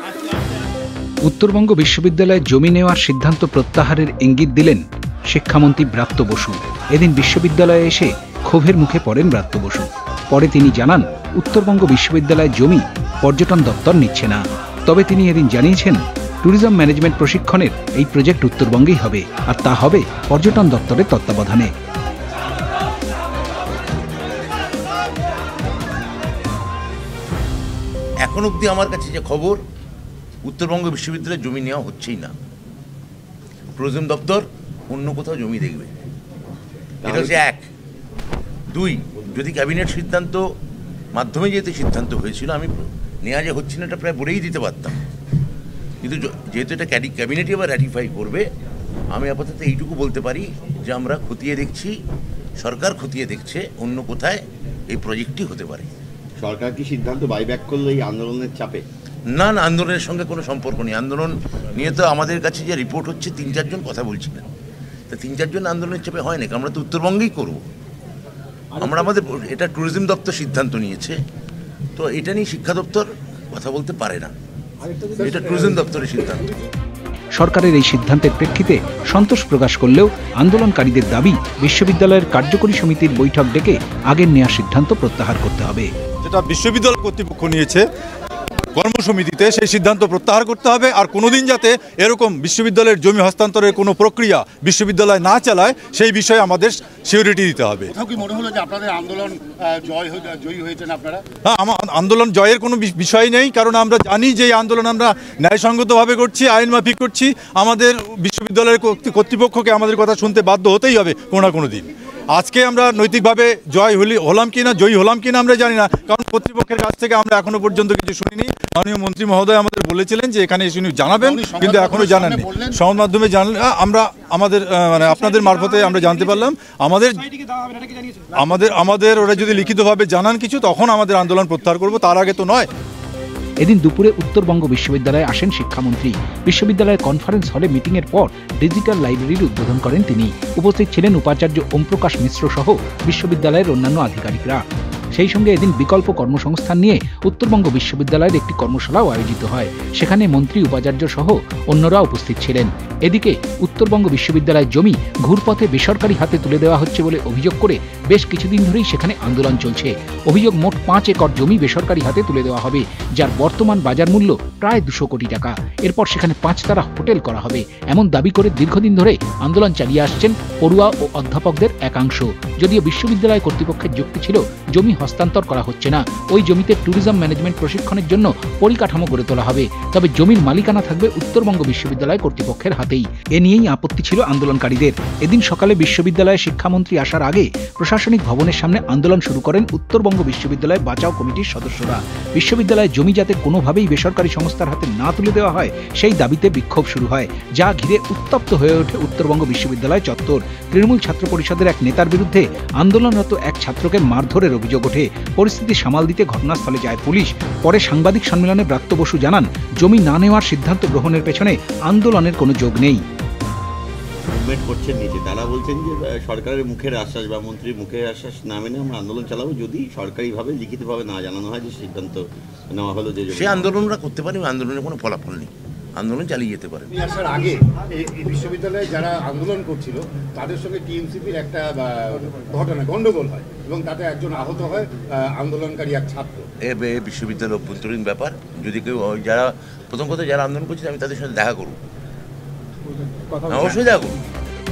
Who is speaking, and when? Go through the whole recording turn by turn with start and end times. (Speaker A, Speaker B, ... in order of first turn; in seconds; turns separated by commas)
Speaker A: 1.2-21.7, Speaker B: 28.2-29.6, Speaker B: 30.4-32.3, Speaker B: 33.8-35.9, Speaker C: 37.0-37.4, Speaker B: 37.0-37.6, Speaker B: 38.7-40.4, Speaker B: 41.1-45.0, Speaker B: 46.0-48.4, Speaker B: 49.1-51.9, Speaker B: 52.6-55.9, Speaker C: 56.4-58.8, Speaker B: 59.3-64.5, Speaker B: 65.1-67.6, Speaker B: 68.8-71.2, Speaker B: 72.0-74.3, Speaker B: 75.1-76.5, Speaker A: 77.3-85.9, Speaker D: 86.2-87.8, Speaker D: 88.8-97.9, Speaker E: 98.0-101.2, Speaker D: 101.4-132.7, Speaker E: 121.4-122.3, Speaker A: 133.6-144.6, Speaker A: 145.1-213.0, Speaker C: 214.3-223.8, Speaker B: 223.3-227.0, Speaker E: 227.0-236.4, Speaker B: 236.6-241.8, Speaker B: 243.4-244.2